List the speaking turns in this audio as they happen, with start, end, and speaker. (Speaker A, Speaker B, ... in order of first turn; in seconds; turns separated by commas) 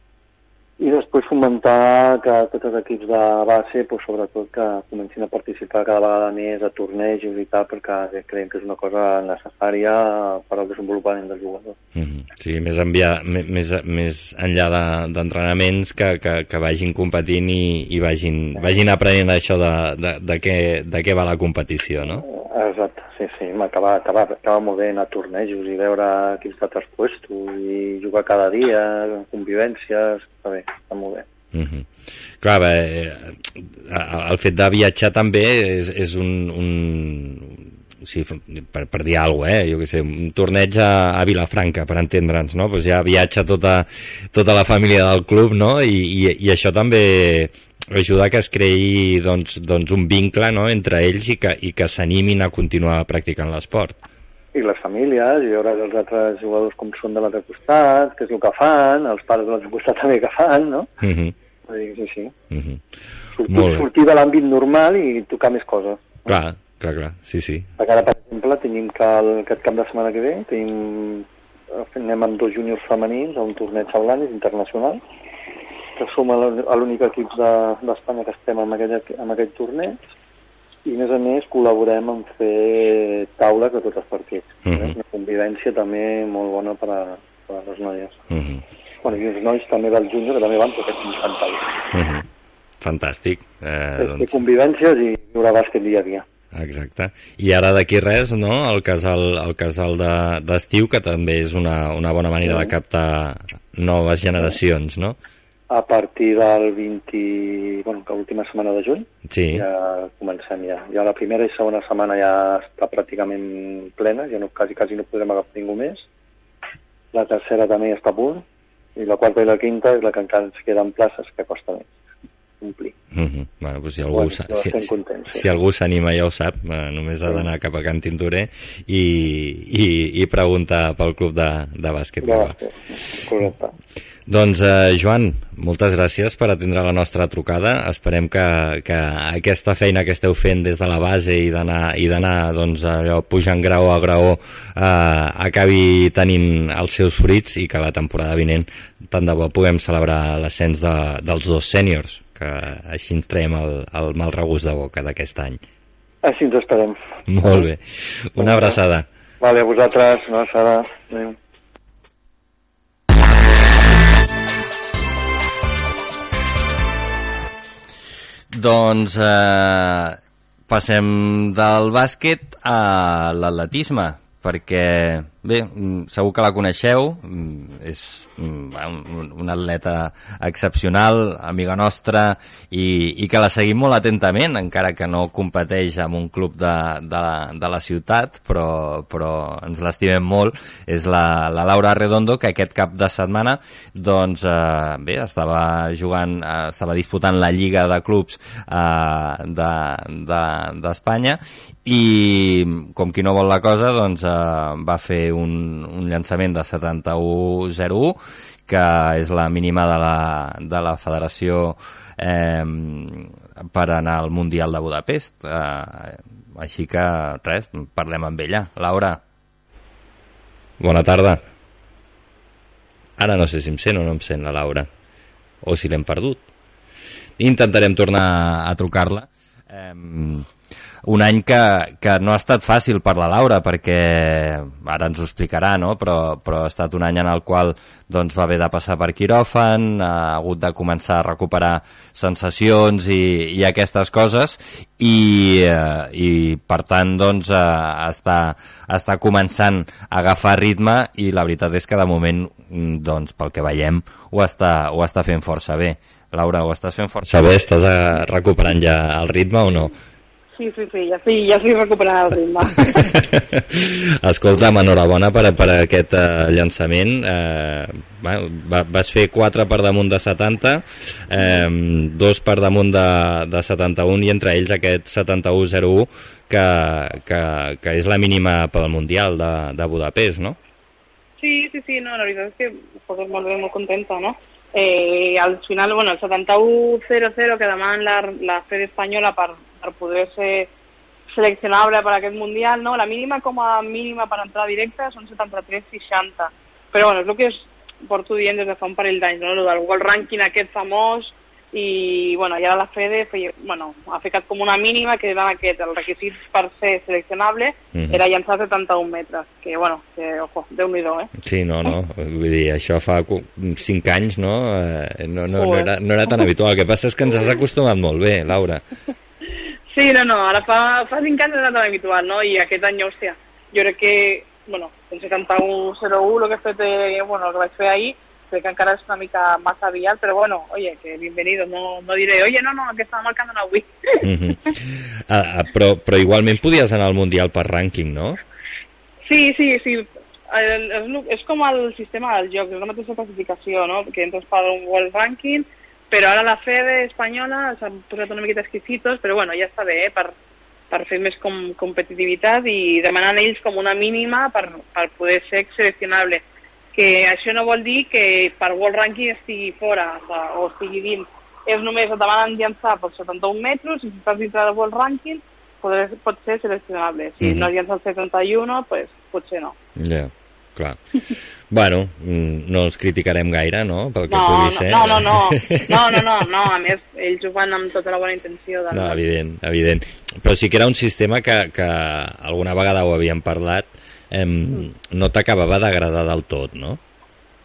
Speaker A: 0.8-11.8, Speaker B: 11.9-22.2, Speaker A: 22.2-31.2, Speaker B: 31.5-31.9, Speaker B: 32.4-54.0, Speaker A: 54.5-60.9, Speaker B: 61.0-61.4, Speaker A: 61.7-62.3, Speaker B: 62.5-62.8, Speaker A: 63.4-66.2, Speaker B: 63.5-63.9, Speaker B: 66.2-67.7, Speaker A: 67.8-75.0, Speaker A: 76.0-80.0, Speaker A: 80.8-88.2, Speaker B: 84.7-85.0, Speaker B: 88.3-88.6, Speaker A: 89.0-91.8, Speaker B: 91.9-92.2, Speaker B: 92.8-94.4, Speaker A: 94.0-96.2, Speaker B: 96.5-105.2, Speaker A: 105.7-116.0, Speaker B: 109.3-109.7, Speaker A: 117.1-118.4, Speaker A: 119.0-121.9, Speaker A: 122.6-122.9, Speaker B: 123.1-132.6, Speaker A: 124.1-125.4, Speaker A: 132.2-133.7, Speaker B: 134.3-155.6, Speaker A: 156.2-157.6, Speaker B: 157.3-159.1, Speaker A: 158.4-158.8, Speaker A: 159.4-161.3, Speaker B: 168.5-219.2, Speaker B: 220.8-221.4, Speaker B: 223.2-224.9, Speaker B: 225.6-226.4, Speaker B: 227.4-230.5, Speaker B: 231.0-259.9, Speaker C: 260.5-263.1, Speaker B: 262.8-280.6, Speaker C: 281.4-290.7, Speaker C: 291.3-311.3, Speaker B: 307.9-308.2, Speaker B: 311.4-318.8, Speaker C: 315.6-316.4, Speaker C: 319.9-334.2, Speaker B: 334.2-338.4, Speaker C: 339.2-350.3, Speaker C: 350.9-369.7, Speaker B: 367.4-367.7, Speaker B: 369.9-371.1, Speaker B: 371.7-376.4, Speaker C: 374.3-379.2, Speaker B: 378.9-387.0